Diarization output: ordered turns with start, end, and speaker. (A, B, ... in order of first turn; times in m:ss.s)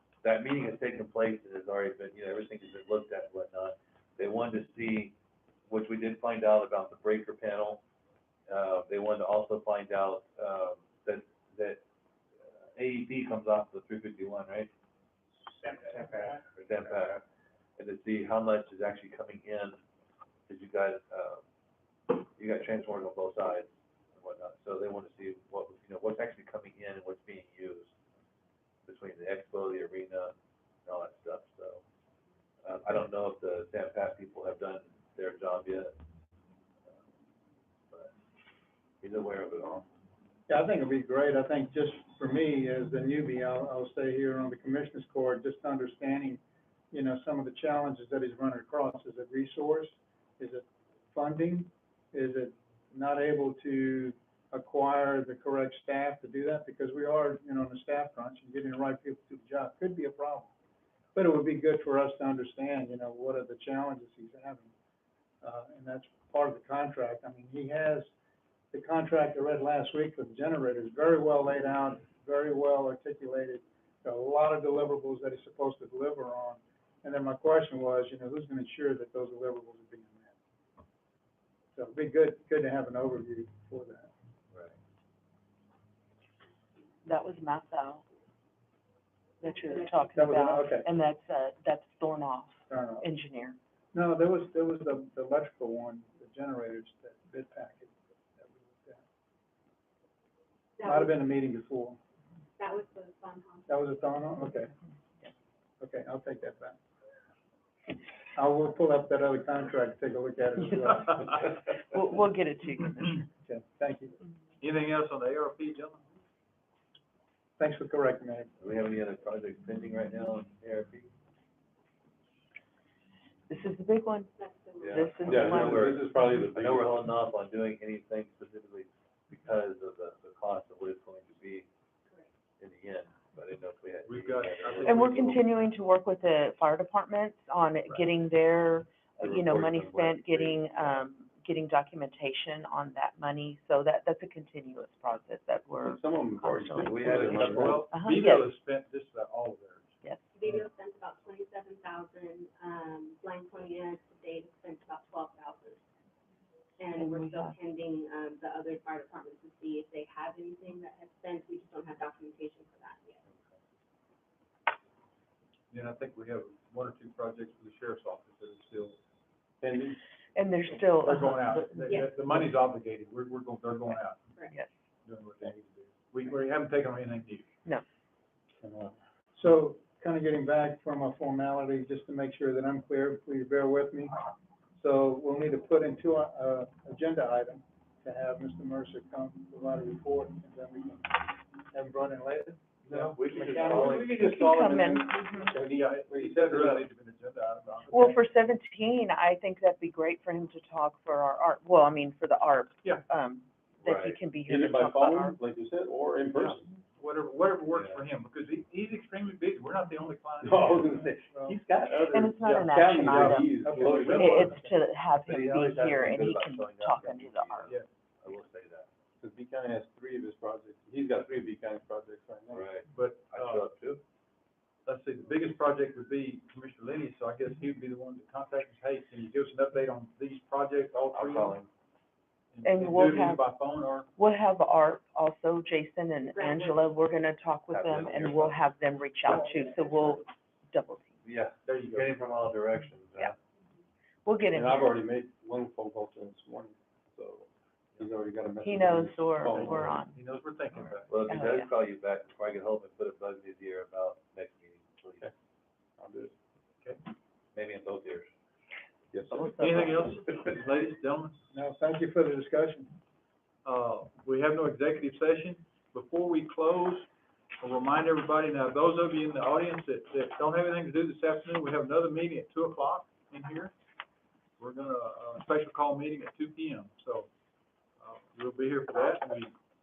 0:00.2-0:05.1 A
0:05.7-0:07.8 A
0:08.5-0:11.8 A
0:12.7-0:14.7 A
0:16.6-0:17.2 A
0:17.8-0:19.8 A
0:20.5-0:21.4 A
0:22.1-0:27.9 A
0:28.8-0:31.8 A
0:32.6-0:35.9 A
0:39.0-0:39.8 A
0:40.5-1:00.5 B
1:01.1-1:04.7 B
1:05.4-1:08.1 B
1:08.7-1:20.3 B
1:21.7-1:24.1 B
1:27.0-1:28.0 C
1:29.4-1:33.6 C
1:30.1-1:30.9 B
1:32.7-1:33.0 B
1:33.9-1:39.0 B
1:40.8-1:41.2 D
1:40.8-1:42.0 B
1:42.6-1:44.0 D
1:43.7-1:44.7 B
1:45.8-1:46.8 B
1:48.3-1:51.4 B
1:51.5-1:53.3 C
1:53.4-1:54.2 B
1:54.6-1:56.0 E
1:57.6-1:58.6 B
1:58.6-2:01.1 A
2:03.5-2:04.3 C
2:04.4-2:05.3 D
2:04.8-2:11.7 A
2:04.9-2:05.9 C
2:05.2-2:07.1 F
2:12.6-2:15.4 A
2:14.0-2:15.4 E
2:14.8-2:28.5 C
2:19.2-2:21.0 A
2:25.8-2:27.9 F
2:26.8-2:27.8 A
2:27.1-2:30.0 E
2:30.3-2:35.8 D
2:36.8-2:43.2 D
2:36.9-2:37.6 C
2:45.7-2:49.0 E
2:49.6-2:50.0 F
2:50.3-2:52.0 C
2:50.8-2:54.3 E
2:51.9-2:52.2 D
2:55.0-2:57.4 E
2:58.6-2:58.9 F
2:59.4-3:04.2 B
3:04.8-3:14.0 B
3:12.9-3:18.2 E
3:13.0-3:14.3 A
3:14.0-3:16.9 F
3:14.1-3:15.5 C
3:17.9-3:25.4 C
3:23.8-3:24.2 A
3:24.4-3:26.7 F
3:26.3-3:31.4 E
3:27.7-3:28.0 A
3:30.4-3:34.5 F
3:31.3-3:31.6 B
3:32.1-3:33.5 C
3:33.1-3:34.6 E
3:33.5-3:34.6 B
3:34.1-3:37.7 C
3:35.2-3:38.9 A
3:39.2-3:42.7 F
3:42.5-3:44.0 A
3:42.8-3:43.7 E
3:44.8-3:51.6 E
3:51.1-3:51.7 A
3:52.5-3:54.1 E
3:52.6-3:53.4 C
3:54.2-4:01.1 C
3:56.3-3:56.8 D
3:57.7-3:58.7 A
3:59.4-4:00.1 D
4:01.2-4:03.3 A
4:01.6-4:02.2 E
4:04.2-4:04.9 C
4:04.5-4:10.1 F
4:08.6-4:10.2 C
4:09.4-4:11.1 E
4:11.1-4:15.3 A
4:11.3-4:11.7 C
4:16.0-4:16.3 F
4:17.5-4:18.3 A
4:19.1-4:20.1 F
4:19.3-4:20.2 C
4:19.5-4:21.3 E
4:21.5-4:22.9 B
4:23.6-4:27.1 E
4:27.6-4:33.7 E
4:34.6-4:37.3 E
4:38.0-4:39.5 E